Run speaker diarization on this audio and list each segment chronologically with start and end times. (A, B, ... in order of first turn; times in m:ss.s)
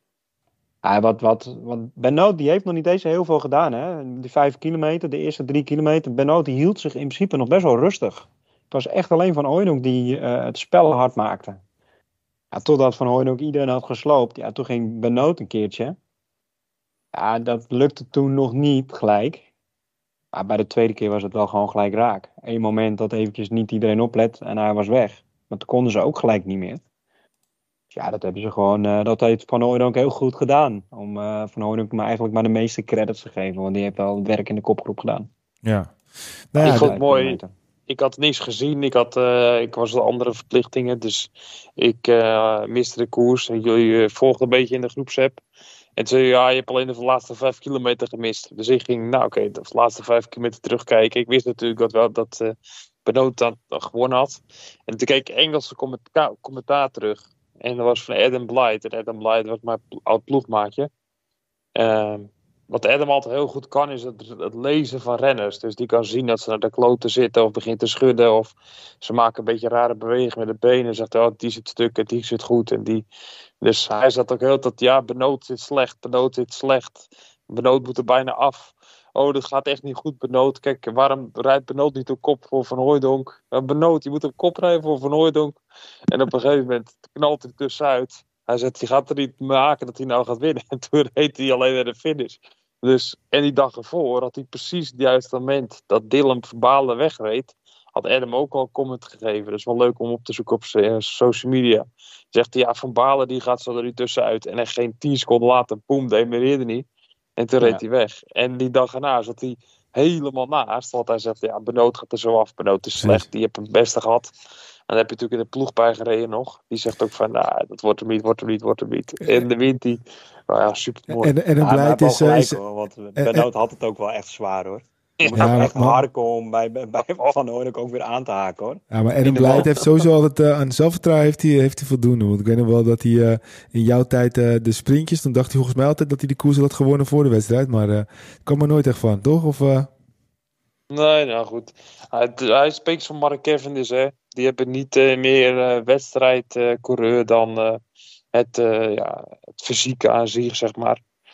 0:00.8-0:11.6 A
0:12.5-0:16.0 A
0:17.1-0:19.5 A
0:20.3-0:26.8 A
0:27.9-0:35.3 A
0:35.6-0:35.9 B
0:36.5-0:36.9 B
0:36.6-0:37.5 A
0:36.6-0:45.4 C
0:46.0-1:00.9 C
1:01.7-1:13.0 C
1:13.6-1:46.8 C
1:47.4-1:54.3 C
1:53.0-1:53.2 B
1:54.9-2:01.3 C
2:01.1-2:02.6 B
2:01.6-2:09.8 A
2:03.2-2:03.5 B
2:05.2-2:05.7 C
2:05.3-2:06.0 B
2:08.9-2:19.9 B
2:20.9-2:27.8 C
2:28.3-2:31.0 C